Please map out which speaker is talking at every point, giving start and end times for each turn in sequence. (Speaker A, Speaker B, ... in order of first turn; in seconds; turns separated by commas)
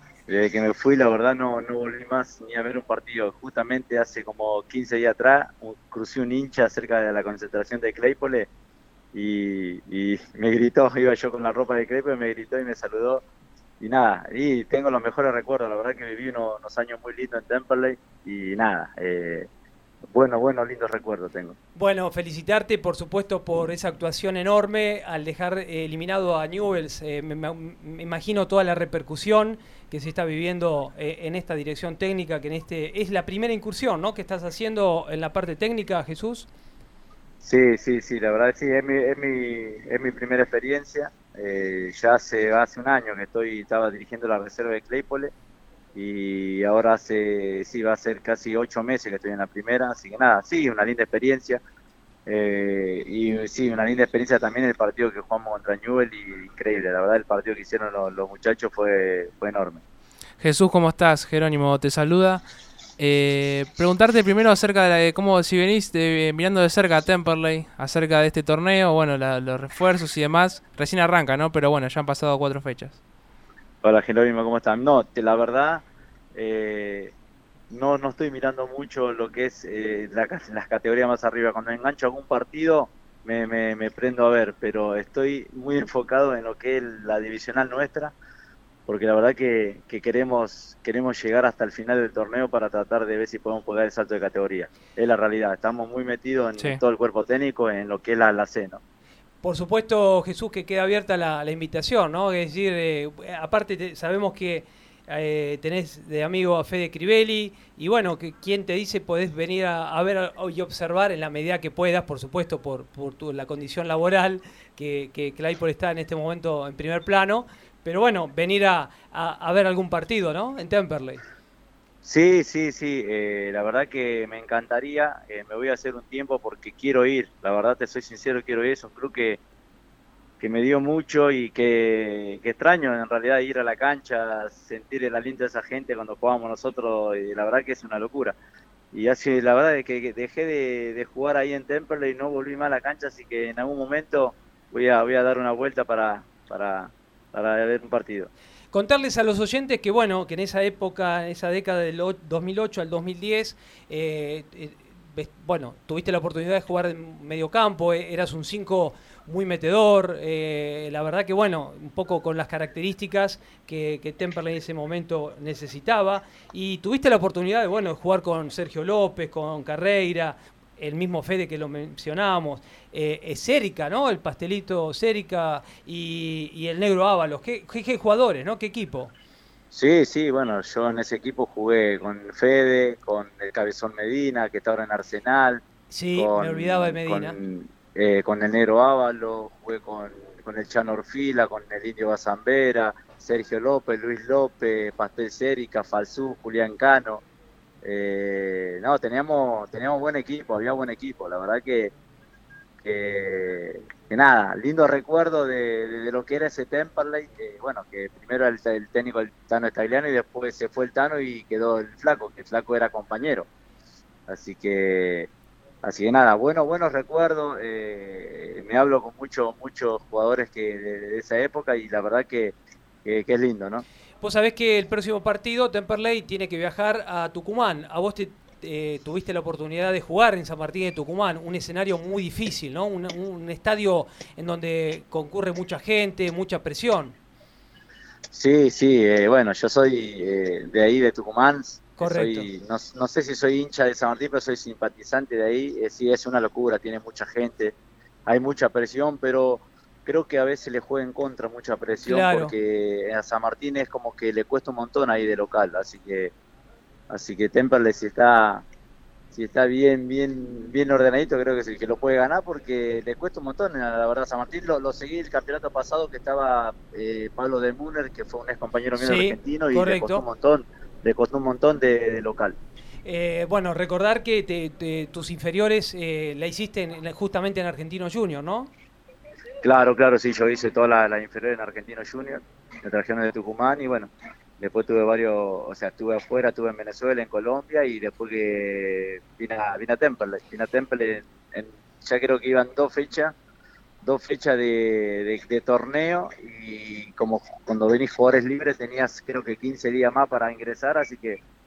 Speaker A: 0.3-8.5, Speaker A: 9.1-13.2, Speaker A: 13.8-19.5, Speaker A: 20.1-21.6, Speaker B: 21.8-36.5, Speaker A: 37.4-45.3, Speaker A: 46.0-51.6, Speaker A: 52.3-59.8, Speaker C: 60.4-62.4, Speaker C: 63.0-73.0, Speaker A: 73.8-77.1, Speaker A: 77.7-88.1, Speaker A: 88.9-98.8, Speaker B: 99.4-121.2, Speaker A: 122.0-129.4, Speaker A: 130.4-138.4, Speaker A: 138.9-148.3, Speaker B: 148.7-179.1, Speaker A: 179.7-185.6, Speaker B: 185.9-187.4, Speaker A: 186.2-197.2, Speaker A: 197.8-201.9, Speaker A: 202.8-213.5, Speaker A: 214.3-215.3, Speaker A: 215.8-223.8, Speaker B: 224.2-237.2, Speaker A: 238.3-256.3, Speaker B: 242.0-242.5, Speaker B: 252.1-252.5, Speaker A: 257.1-258.6, Speaker A: 259.3-272.6, Speaker B: 269.0-270.2, Speaker B: 273.1-278.7, Speaker A: 279.6-293.4, Speaker A: 294.0-301.4